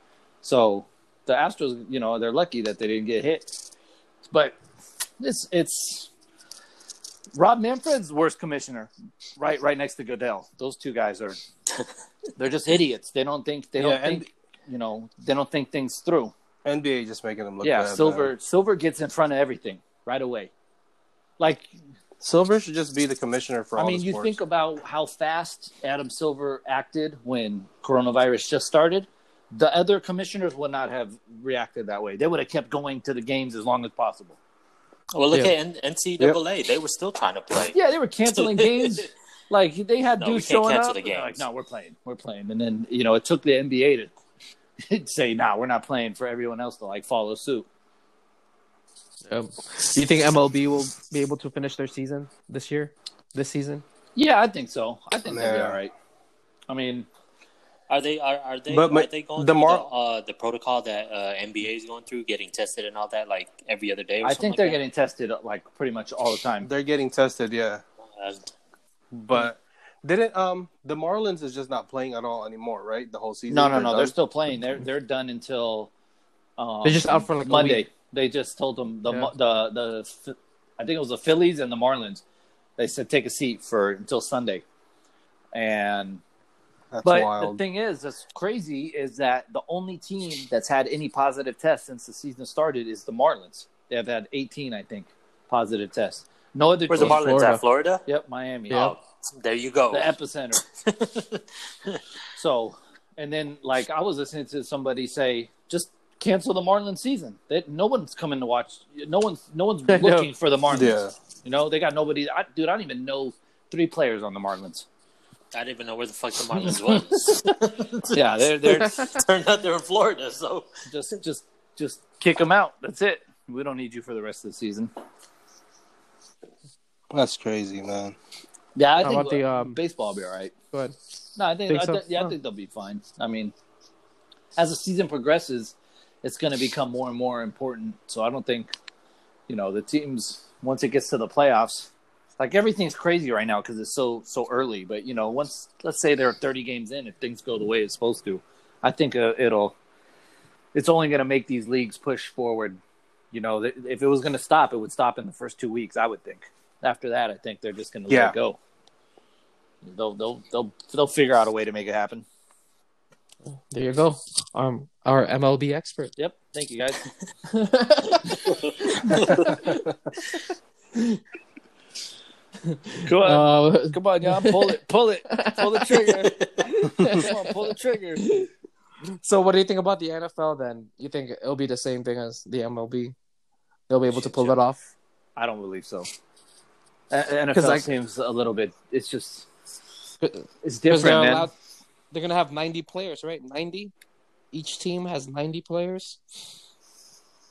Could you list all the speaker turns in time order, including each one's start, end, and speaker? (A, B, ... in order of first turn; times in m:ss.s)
0:00.4-0:03.5 A
0:04.3-0:04.6 A
0:05.2-0:06.1 A
0:07.3-0:11.4 A
0:12.4-0:16.3 A
0:13.8-0:14.3 B
0:16.6-0:18.3 B
0:17.6-0:20.5 A
0:21.4-0:21.7 A
0:22.2-0:24.4 B
0:23.8-0:34.4 A
0:35.1-0:39.1 C
0:37.7-0:44.1 A
0:40.2-0:41.4 C
0:44.8-0:47.7 A
0:49.3-0:53.8 D
0:54.1-0:55.9 A
0:55.3-0:55.8 B
0:56.7-0:57.1 A
0:57.9-1:04.8 C
0:58.7-0:59.9 B
1:04.2-1:06.7 A
1:06.6-1:07.8 B
1:08.1-1:08.5 C
1:09.1-1:14.1 B
1:13.5-1:15.9 A
1:16.6-1:22.2 A
1:16.8-1:17.8 D
1:22.8-1:24.6 A
1:25.5-1:26.2 A
1:26.9-1:27.6 B
1:27.0-1:37.3 A
1:36.9-1:38.0 C
1:37.0-1:37.6 D
1:38.0-1:38.9 A
1:38.7-1:38.9 D
1:38.7-1:40.2 C
1:39.9-1:40.6 A
1:40.7-1:42.0 C
1:42.4-1:54.9 A
1:49.9-1:50.3 D
1:50.7-1:51.1 B
1:55.5-2:00.7 C
1:56.5-1:57.5 A
1:58.1-1:59.1 A
2:00.9-2:04.9 A
2:07.1-2:08.1 B
2:08.8-2:10.5 A
2:09.0-2:09.8 D
2:11.4-2:13.5 A
2:11.7-2:12.3 D
2:14.6-2:18.7 A
2:19.5-2:29.8 A
2:30.7-2:32.8 A
2:33.3-2:38.6 A
2:38.1-2:38.4 B
2:39.8-2:42.2 A
2:43.5-2:46.1 D
2:46.2-2:47.1 A
2:47.5-2:49.8 D
2:48.6-2:49.5 C
2:52.7-2:54.7 D
2:53.1-2:56.4 A
2:55.3-2:56.1 D
2:56.3-2:56.6 C
2:56.6-2:57.5 D
2:57.0-2:58.3 A
2:59.2-3:03.1 D
3:03.9-3:04.9 D
3:04.1-3:04.6 A
3:05.4-3:06.1 A
3:07.1-3:09.5 A
3:07.5-3:07.9 D
3:10.2-3:11.5 D
3:10.6-3:11.5 A
3:12.1-3:13.9 D
3:14.5-3:16.2 D